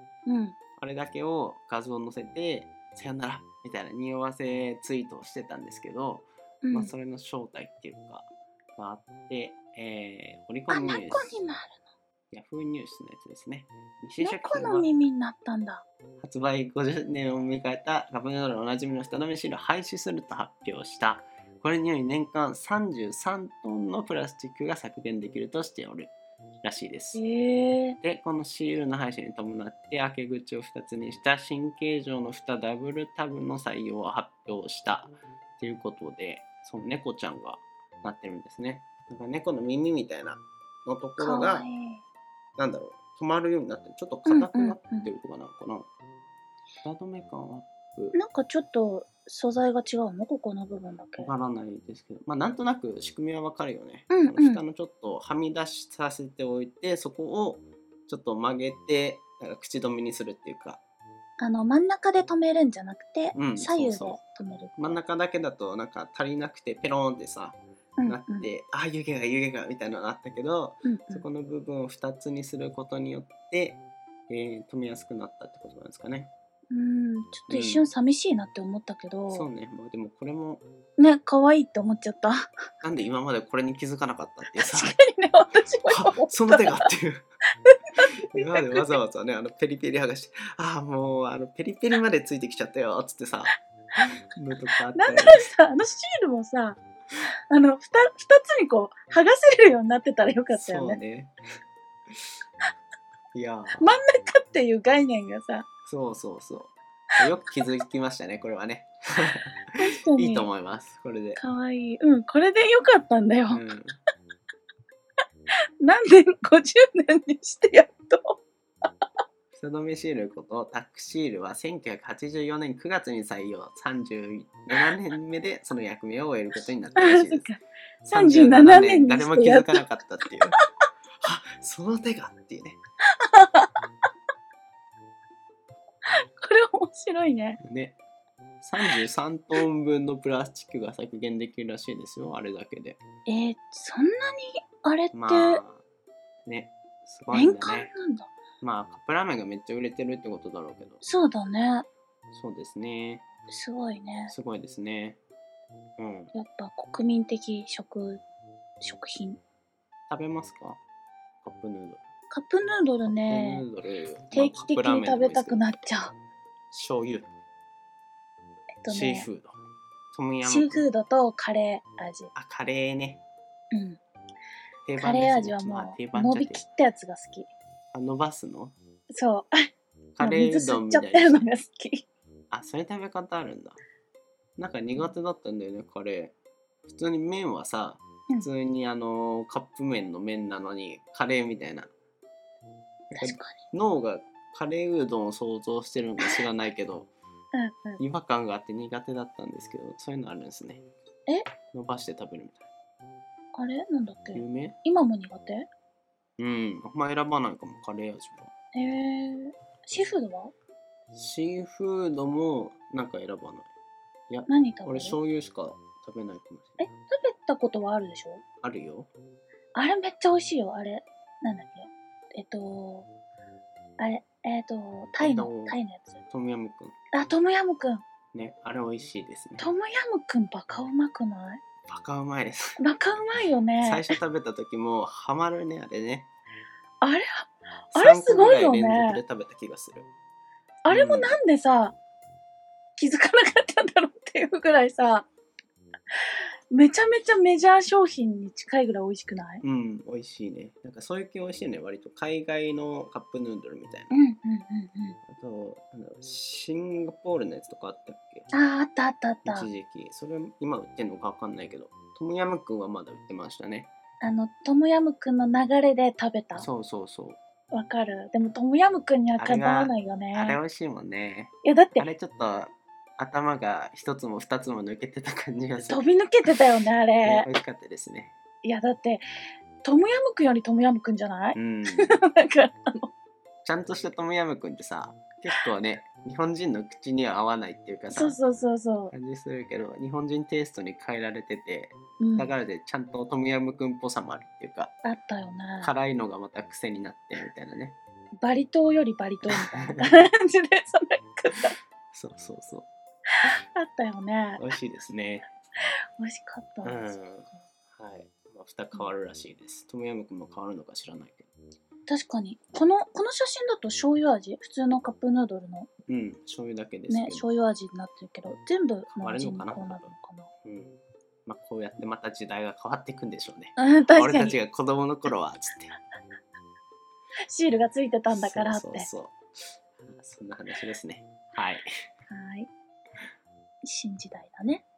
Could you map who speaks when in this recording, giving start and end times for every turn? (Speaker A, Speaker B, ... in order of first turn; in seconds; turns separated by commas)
Speaker A: 0.3-0.6, Speaker B: 0.8-11.4, Speaker A: 6.6-6.9, Speaker A: 10.7-11.8, Speaker B: 12.3-14.9, Speaker A: 14.2-15.8, Speaker B: 16.2-27.2, Speaker A: 27.1-28.0, Speaker B: 28.0-41.7, Speaker A: 41.2-42.0, Speaker B: 42.6-45.9, Speaker A: 44.3-45.1, Speaker B: 46.8-48.2, Speaker A: 48.1-51.3, Speaker B: 51.2-60.8, Speaker A: 54.1-54.6, Speaker A: 61.4-65.0, Speaker B: 63.3-64.2, Speaker B: 64.8-76.3, Speaker A: 68.0-68.5, Speaker A: 70.8-71.3, Speaker A: 76.7-79.5, Speaker B: 77.5-77.9, Speaker B: 79.3-80.6, Speaker A: 81.0-82.5, Speaker B: 82.8-85.0, Speaker A: 84.5-86.9, Speaker B: 85.9-87.3, Speaker A: 87.7-88.9, Speaker B: 88.1-93.5, Speaker B: 94.3-95.5, Speaker A: 95.0-96.8, Speaker A: 97.5-101.0, Speaker B: 100.5-101.3, Speaker B: 103.3-103.9, Speaker A: 103.8-105.7, Speaker B: 105.9-111.4, Speaker A: 109.8-110.5, Speaker A: 111.4-113.6, Speaker B: 113.5-114.0, Speaker A: 115.8-118.4, Speaker B: 119.5-127.5, Speaker A: 127.0-129.8, Speaker B: 128.0-130.6, Speaker B: 131.2-132.8, Speaker A: 133.2-133.7, Speaker A: 136.3-137.6, Speaker B: 137.6-138.0, Speaker B: 138.6-143.0, Speaker A: 143.3-145.6, Speaker B: 145.1-145.8, Speaker B: 146.4-147.9, Speaker A: 147.3-148.3, Speaker B: 148.6-151.0, Speaker A: 151.0-151.9, Speaker B: 152.3-153.2, Speaker A: 153.5-154.3, Speaker B: 154.3-155.2, Speaker B: 156.0-156.3, Speaker A: 156.3-158.2, Speaker A: 158.8-159.4, Speaker B: 160.1-160.8, Speaker B: 161.4-162.0, Speaker A: 162.3-163.7, Speaker B: 163.1-165.7, Speaker A: 164.3-166.2, Speaker B: 166.7-167.3, Speaker A: 168.8-169.3, Speaker B: 168.9-169.6, Speaker B: 170.1-170.9, Speaker A: 170.4-172.3, Speaker B: 172.3-173.2, Speaker A: 173.7-174.0, Speaker B: 174.9-176.7, Speaker A: 175.0-177.5, Speaker B: 177.9-178.8, Speaker A: 179.1-179.7, Speaker B: 180.2-181.5, Speaker A: 180.2-182.1, Speaker B: 182.5-183.8, Speaker B: 184.6-191.9, Speaker B: 193.1-197.1, Speaker A: 193.2-193.6, Speaker A: 197.5-198.0, Speaker B: 198.0-200.8, Speaker B: 201.7-202.6, Speaker A: 203.5-205.7, Speaker B: 204.3-204.8, Speaker B: 206.4-208.5, Speaker A: 208.7-210.5, Speaker B: 211.1-213.7, Speaker B: 214.3-216.9, Speaker A: 214.5-215.2, Speaker A: 216.8-218.4, Speaker B: 218.6-219.1, Speaker A: 219.8-223.1, Speaker A: 224.0-226.2, Speaker B: 225.2-225.8, Speaker B: 226.3-226.9, Speaker A: 227.1-228.0, Speaker B: 228.3-229.7, Speaker A: 229.6-231.6, Speaker B: 231.9-232.8, Speaker A: 232.8-234.1, Speaker B: 233.8-236.3, Speaker A: 237.0-239.2, Speaker B: 237.9-240.1, Speaker A: 240.8-242.0, Speaker B: 240.9-241.4, Speaker A: 243.0-245.3, Speaker A: 246.7-249.6, Speaker B: 249.6-254.2, Speaker A: 254.1-255.2, Speaker B: 255.2-258.5, Speaker A: 258.5-259.7, Speaker B: 259.4-263.9, Speaker A: 264.2-266.7, Speaker B: 266.6-267.4, Speaker A: 267.7-270.6, Speaker B: 269.4-276.1, Speaker A: 271.6-272.1, Speaker A: 275.8-277.5, Speaker B: 277.2-278.3, Speaker A: 278.6-279.2, Speaker A: 279.8-283.1, Speaker B: 281.5-282.2, Speaker B: 283.6-288.4, Speaker A: 288.1-289.1, Speaker B: 289.1-294.9, Speaker A: 292.2-292.5, Speaker A: 295.0-295.9, Speaker B: 295.8-298.0, Speaker A: 298.4-301.7, Speaker B: 299.5-300.1, Speaker B: 302.1-302.9, Speaker A: 303.4-304.6, Speaker B: 304.6-305.5, Speaker A: 306.2-307.2, Speaker B: 306.8-311.5, Speaker A: 312.1-315.9, Speaker B: 316.1-317.5, Speaker A: 317.1-320.5, Speaker B: 319.1-320.1, Speaker B: 320.6-326.0, Speaker A: 323.8-324.6, Speaker A: 327.5-329.1, Speaker B: 328.3-329.4, Speaker B: 330.0-331.9, Speaker A: 332.3-332.7, Speaker A: 333.8-334.8